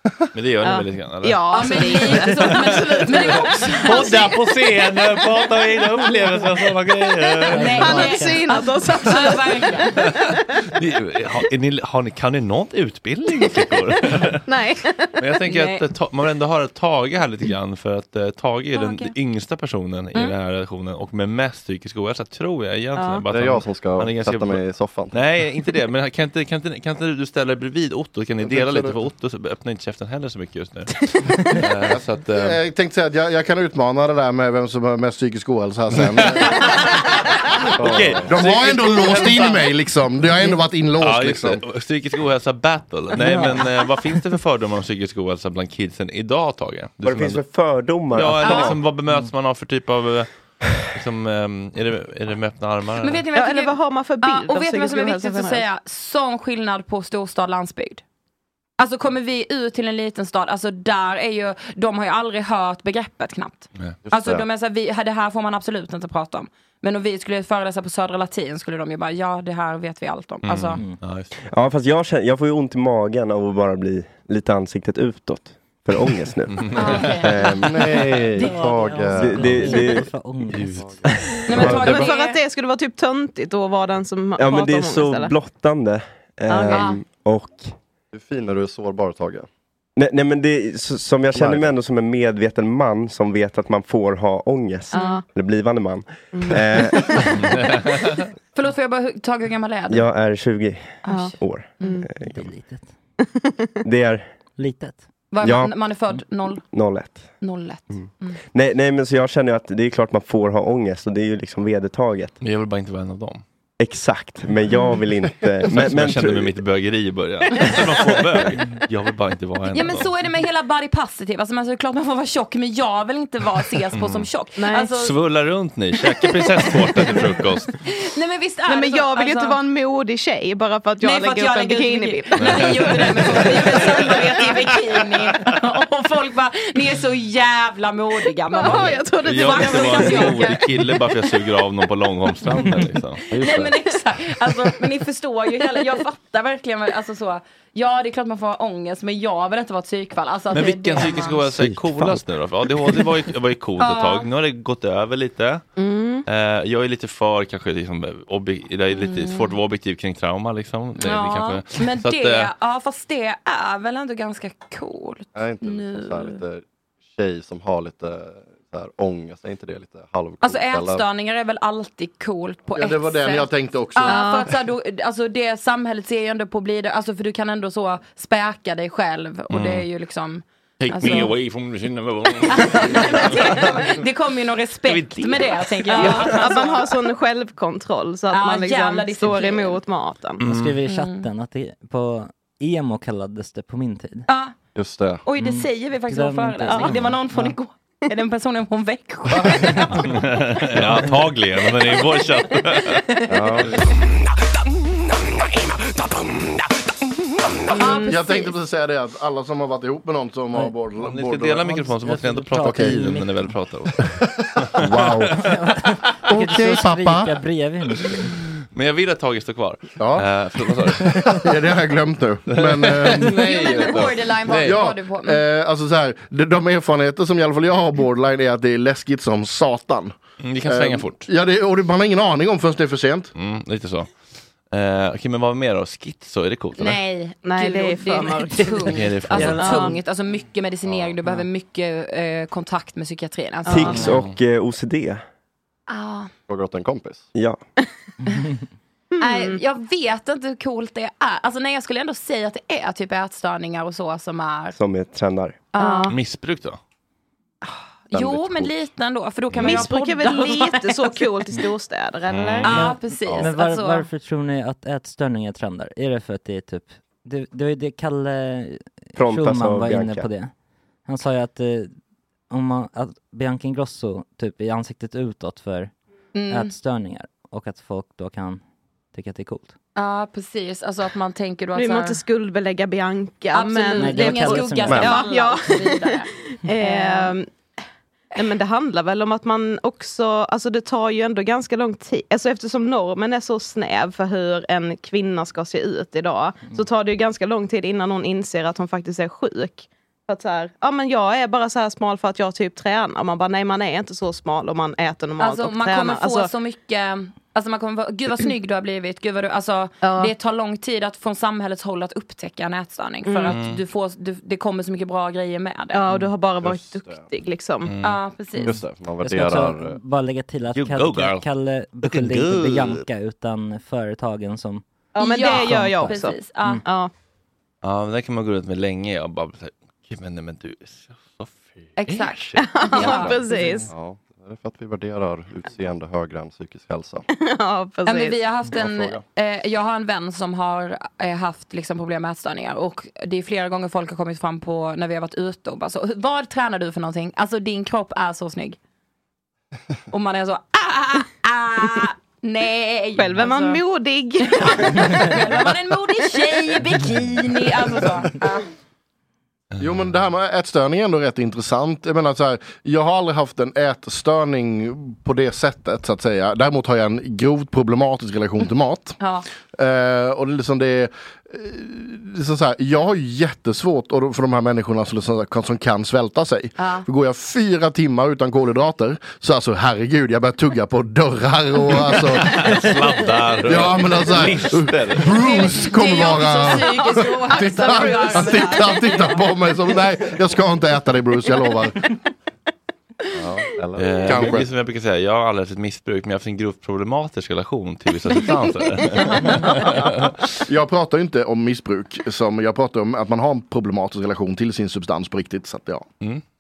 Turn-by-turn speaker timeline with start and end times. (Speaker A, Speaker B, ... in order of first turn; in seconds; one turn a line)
Speaker A: 0.3-8.1
Speaker B: 0.6-3.7
Speaker C: 1.5-4.4
Speaker C: 7.5-10.1
Speaker D: 7.5-8.8
Speaker B: 7.8-10.0
Speaker A: 10.0-14.4
Speaker B: 14.5-15.1
Speaker A: 15.2-32.6
Speaker C: 15.4-15.8
Speaker C: 18.7-19.1
Speaker B: 23.0-23.2
Speaker E: 23.3-25.2
Speaker E: 28.4-29.0
Speaker F: 32.3-36.9
Speaker A: 35.9-39.7
Speaker E: 37.8-38.3
Speaker F: 38.2-41.6
Speaker A: 40.4-47.4
Speaker D: 43.2-43.6
Speaker G: 47.0-48.8
Speaker A: 48.1-53.3
Speaker C: 48.4-48.8
Speaker C: 53.0-58.0
Speaker B: 53.4-55.6
Speaker C: 58.8-70.8
Speaker E: 64.1-64.5
Speaker A: 70.4-71.3
Speaker G: 71.5-77.9
Speaker A: 76.6-77.0
Speaker C: 76.7-77.6
Speaker E: 77.4-79.9
Speaker D: 78.4-81.4
Speaker G: 79.2-80.1
Speaker E: 80.5-82.1
Speaker C: 81.5-82.4
Speaker B: 81.8-85.3
Speaker G: 84.4-87.8
Speaker B: 86.5-86.9
Speaker C: 86.7-87.0
Speaker E: 88.1-89.5
Speaker G: 90.0-97.3
Speaker E: 91.3-91.7
Speaker B: 94.9-95.2
Speaker C: 94.9-95.2
Speaker B: 96.3-97.2
Speaker C: 98.5-100.1
Speaker G: 99.9-102.5
Speaker C: 101.1-102.0
Speaker B: 101.1-102.1
Speaker D: 102.3-103.0
Speaker G: 103.8-104.3
Speaker D: 104.6-105.1
Speaker C: 105.3-106.6
Speaker G: 105.4-105.7
Speaker G: 106.7-107.3
Speaker C: 107.4-108.4
Speaker G: 108.0-112.4
Speaker A: 112.4-113.4
Speaker G: 113.8-116.5
Speaker A: 115.7-120.1
Speaker C: 119.7-125.1
Speaker A: 123.9-124.3
Speaker B: 124.6-124.9
Speaker A: 124.9-127.7
Speaker C: 127.8-129.6
Speaker B: 128.7-134.7
Speaker C: 131.0-140.6
Speaker A: 132.4-134.5
Speaker B: 138.5-140.6
Speaker A: 139.2-143.8
Speaker C: 143.3-151.4
Speaker A: 150.5-155.6
Speaker G: 151.5-152.2
Speaker C: 153.8-154.3
Speaker B: 155.8-156.2
Speaker A: 156.3-162.5
Speaker C: 158.9-159.6
Speaker C: 161.0-166.4
Speaker E: 165.3-171.1
Speaker C: 170.4-181.3
Speaker F: 172.7-174.2
Speaker B: 174.1-174.5
Speaker A: 179.5-179.9
Speaker A: 180.8-184.0
Speaker C: 182.4-187.0
Speaker A: 184.8-186.5
Speaker B: 185.9-190.4
Speaker C: 188.3-189.8
Speaker A: 190.4-190.8
Speaker D: 190.4-194.3
Speaker C: 190.9-191.3
Speaker C: 194.3-194.6
Speaker E: 194.8-195.2
Speaker C: 195.2-200.1
Speaker D: 195.4-197.6
Speaker B: 196.7-197.1
Speaker A: 199.9-203.0
Speaker D: 200.8-201.1
Speaker C: 203.1-203.5
Speaker E: 203.3-203.9
Speaker C: 207.7-208.5
Speaker B: 207.7-208.2
Speaker F: 208.0-211.7
Speaker A: 211.0-214.0
Speaker D: 211.6-213.5
Speaker A: 214.7-215.4
Speaker F: 214.8-215.3
Speaker D: 215.4-218.4
Speaker F: 216.3-217.3
Speaker A: 218.7-221.5
Speaker F: 220.0-220.3
Speaker F: 220.9-224.0
Speaker A: 222.5-224.9
Speaker C: 223.2-225.4
Speaker F: 224.6-233.3
Speaker A: 230.4-231.3
Speaker A: 233.3-234.1
Speaker A: 234.7-237.0
Speaker C: 236.8-244.1
Speaker B: 237.4-238.9
Speaker A: 238.9-239.7
Speaker D: 239.3-240.0
Speaker B: 239.6-240.0
Speaker E: 240.9-241.2
Speaker B: 243.7-244.0
Speaker G: 243.7-245.2
Speaker A: 243.9-244.3
Speaker C: 245.9-246.3
Speaker E: 246.5-247.3
Speaker G: 247.3-247.6
Speaker B: 249.2-249.6
Speaker C: 249.2-254.8
Speaker G: 254.8-255.6
Speaker C: 255.7-256.1
Speaker B: 255.8-256.1
Speaker A: 256.1-256.8
Speaker C: 258.1-261.6
Speaker E: 258.2-258.6
Speaker A: 259.5-259.9
Speaker B: 259.6-262.9
Speaker A: 262.3-262.8
Speaker C: 262.6-264.1
Speaker D: 262.7-270.5
Speaker E: 263.3-263.5
Speaker G: 269.2-270.3
Speaker D: 271.1-272.0
Speaker D: 272.5-275.9
Speaker C: 276.3-276.7
Speaker D: 276.5-278.6
Speaker D: 279.1-279.8
Speaker C: 280.0-282.2
Speaker B: 281.8-287.5
Speaker C: 283.5-287.4
Speaker D: 284.0-285.1
Speaker B: 288.4-306.5
Speaker C: 305.4-316.0
Speaker B: 310.0-310.3
Speaker B: 313.3-313.6
Speaker A: 313.5-313.8
Speaker B: 315.9-317.9
Speaker E: 316.6-317.3
Speaker A: 317.9-318.2
Speaker C: 318.0-318.8
Speaker E: 318.6-320.0
Speaker D: 319.2-324.8
Speaker A: 320.7-321.5
Speaker A: 322.0-323.1
Speaker B: 325.1-327.1
Speaker C: 325.2-326.8
Speaker D: 325.5-326.1
Speaker A: 327.8-333.4
Speaker C: 332.0-333.8
Speaker B: 332.6-333.9
Speaker E: 333.0-333.3
Speaker E: 333.9-337.3
Speaker B: 337.3-338.4
Speaker C: 338.1-348.8
Speaker E: 338.7-339.2
Speaker C: 350.1-353.8
Speaker B: 353.2-355.5
Speaker C: 354.4-358.7
Speaker F: 359.8-369.2
Speaker C: 369.2-369.5
Speaker F: 369.7-382.9
Speaker C: 376.8-377.1
Speaker A: 382.1-385.7
Speaker F: 383.6-392.0
Speaker C: 385.3-389.5
Speaker B: 386.6-389.2
Speaker E: 393.3-394.7
Speaker A: 394.0-400.5
Speaker F: 394.3-394.6
Speaker C: 399.1-400.1
Speaker F: 400.7-406.1